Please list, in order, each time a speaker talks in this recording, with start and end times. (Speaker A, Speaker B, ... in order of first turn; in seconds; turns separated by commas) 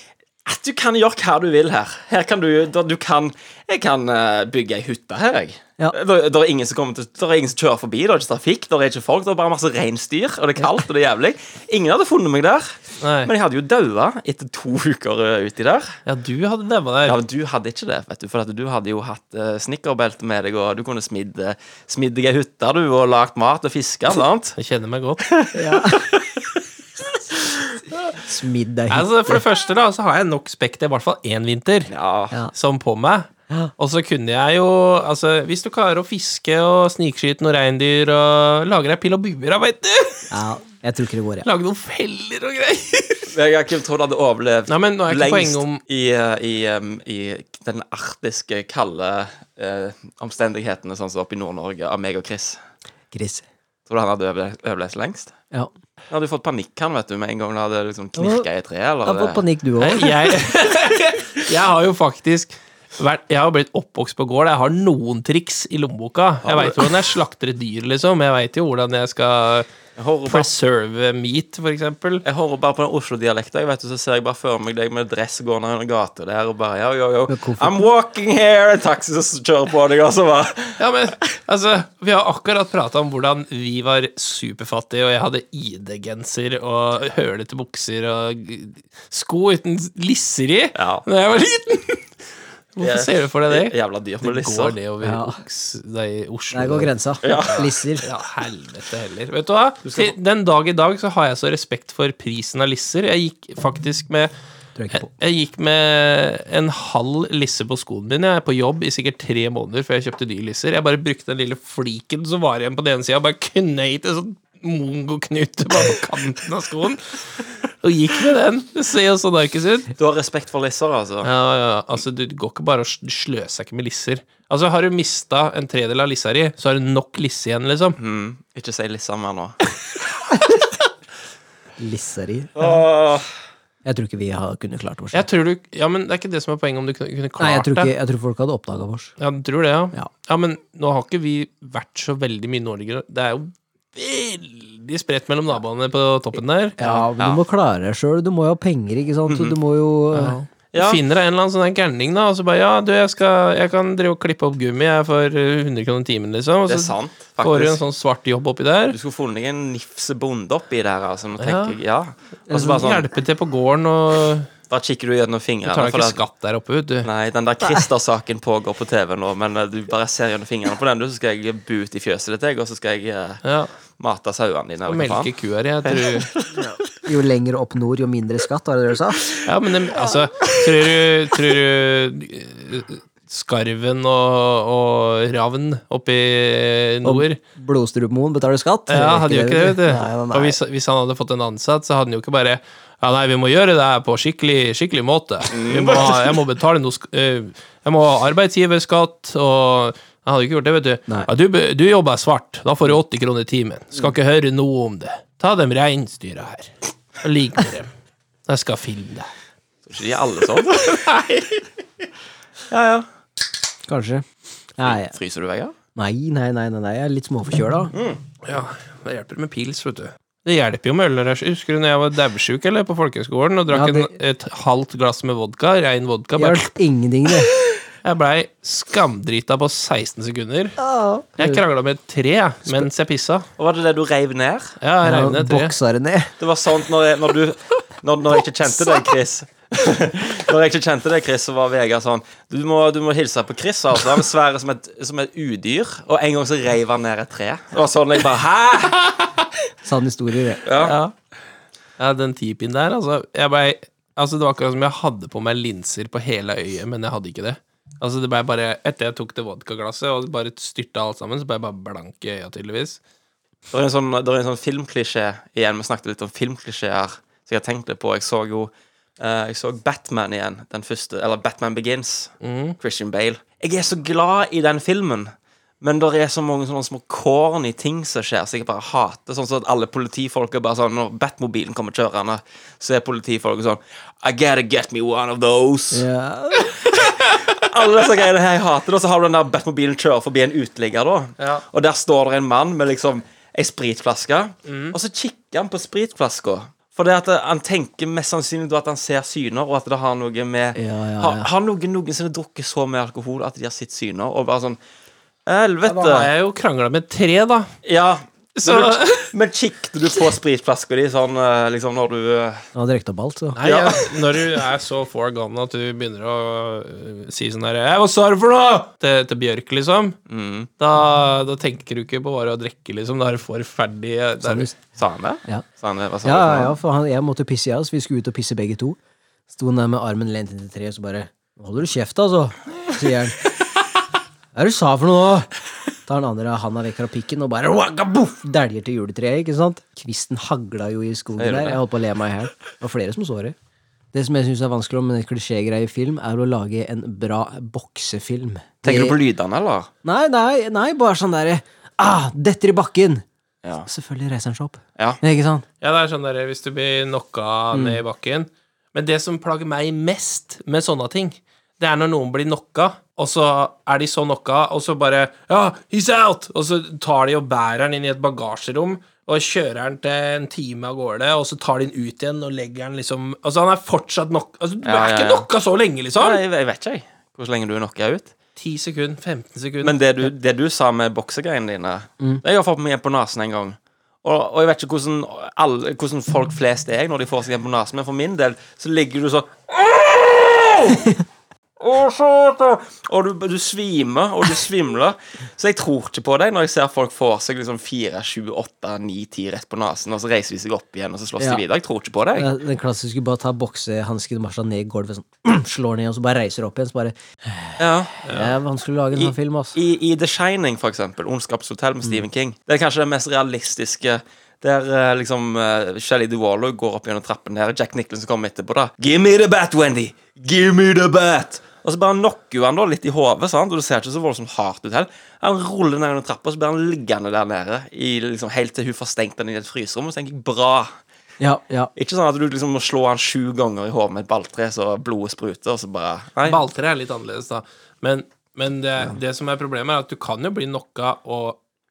Speaker A: 0.4-16.0, Speaker B: 13.0-13.3, Speaker B: 16.1-17.2, Speaker A: 17.1-24.6, Speaker B: 24.6-25.2, Speaker A: 25.2-26.6, Speaker C: 25.5-26.1, Speaker C: 28.1-29.4, Speaker B: 28.9-31.9, Speaker A: 31.9-32.4, Speaker B: 32.5-40.3, Speaker C: 40.3-41.5, Speaker B: 41.4-43.3, Speaker A: 43.3-52.6, Speaker B: 44.7-45.8, Speaker C: 53.1-53.5, Speaker A: 53.9-55.3, Speaker A: 56.1-59.4, Speaker C: 58.2-58.5, Speaker C: 59.0-60.3, Speaker B: 59.8-69.7, Speaker A: 66.4-67.0, Speaker A: 70.0-70.5, Speaker B: 70.3-72.2, Speaker A: 72.2-80.8, Speaker C: 77.3-77.8, Speaker B: 80.8-92.1, Speaker A: 90.7-91.0, Speaker B: 92.7-104.3, Speaker A: 92.8-94.8, Speaker C: 95.0-95.4, Speaker C: 96.5-98.0, Speaker A: 97.2-97.7, Speaker A: 99.8-100.1, Speaker C: 104.8-105.1, Speaker B: 104.9-119.9, Speaker A: 120.0-121.3, Speaker B: 121.2-128.0, Speaker A: 128.0-129.6, Speaker C: 131.8-132.7, Speaker A: 132.6-133.3, Speaker C: 133.8-135.2, Speaker B: 135.1-137.9, Speaker C: 137.4-139.1, Speaker B: 139.2-147.1, Speaker C: 146.8-150.4, Speaker A: 147.2-147.4, Speaker A: 149.3-149.6, Speaker B: 150.1-159.0, Speaker A: 150.7-151.0, Speaker A: 156.7-157.8, Speaker A: 158.9-163.1, Speaker B: 161.4-161.8, Speaker C: 162.5-162.8, Speaker B: 162.5-164.5, Speaker A: 164.7-166.2, Speaker B: 165.7-167.1, Speaker A: 167.0-173.4, Speaker B: 173.4-173.7, Speaker A: 174.0-175.3, Speaker B: 174.8-176.3, Speaker A: 175.8-176.7, Speaker C: 176.6-179.4, Speaker B: 179.4-187.4, Speaker C: 187.0-190.6, Speaker B: 188.9-207.9, Speaker A: 195.5-196.4, Speaker B: 208.5-209.3, Speaker A: 209.8-211.2, Speaker B: 210.8-211.4, Speaker A: 212.7-213.1, Speaker C: 213.9-214.2, Speaker C: 214.8-215.1, Speaker A: 214.8-215.7, Speaker C: 215.9-217.9, Speaker A: 217.9-218.2, Speaker B: 218.4-226.7, Speaker C: 223.7-224.1, Speaker C: 226.3-227.5, Speaker B: 228.0-230.8, Speaker C: 230.8-231.6, Speaker B: 231.4-233.5, Speaker A: 233.6-234.8, Speaker B: 234.8-235.7, Speaker C: 235.0-236.3, Speaker A: 236.4-249.2, Speaker C: 249.8-250.6, Speaker A: 250.6-251.0, Speaker B: 250.8-251.1, Speaker B: 252.0-263.0, Speaker A: 263.7-286.1, Speaker B: 272.4-272.8, Speaker C: 285.9-286.7, Speaker A: 286.8-304.8, Speaker B: 291.4-291.6, Speaker B: 294.6-294.9, Speaker C: 300.7-301.5, Speaker A: 305.4-306.3, Speaker B: 305.8-307.7, Speaker A: 307.8-312.6, Speaker B: 308.6-309.3, Speaker C: 312.7-313.6, Speaker B: 313.6-320.2, Speaker A: 313.6-314.1, Speaker A: 320.3-320.7, Speaker B: 320.8-324.7, Speaker C: 324.4-324.7, Speaker A: 324.9-326.7, Speaker C: 326.2-329.0, Speaker C: 329.5-333.5, Speaker C: 334.5-335.5, Speaker C: 336.1-343.6, Speaker A: 341.4-341.8, Speaker C: 344.1-349.2, Speaker A: 348.8-349.9, Speaker C: 350.0-353.2, Speaker C: 353.9-355.6, Speaker B: 355.8-376.4, Speaker C: 357.7-358.0, Speaker A: 374.8-375.5, Speaker A: 376.2-378.3, Speaker B: 378.6-380.0, Speaker A: 379.8-391.2, Speaker A: 391.8-402.5, Speaker C: 401.4-401.6, Speaker C: 402.4-409.8, Speaker A: 407.8-408.3, Speaker B: 408.2-408.6, Speaker A: 409.1-430.9, Speaker C: 431.4-431.9, Speaker A: 431.9-436.6, Speaker B: 436.4-441.6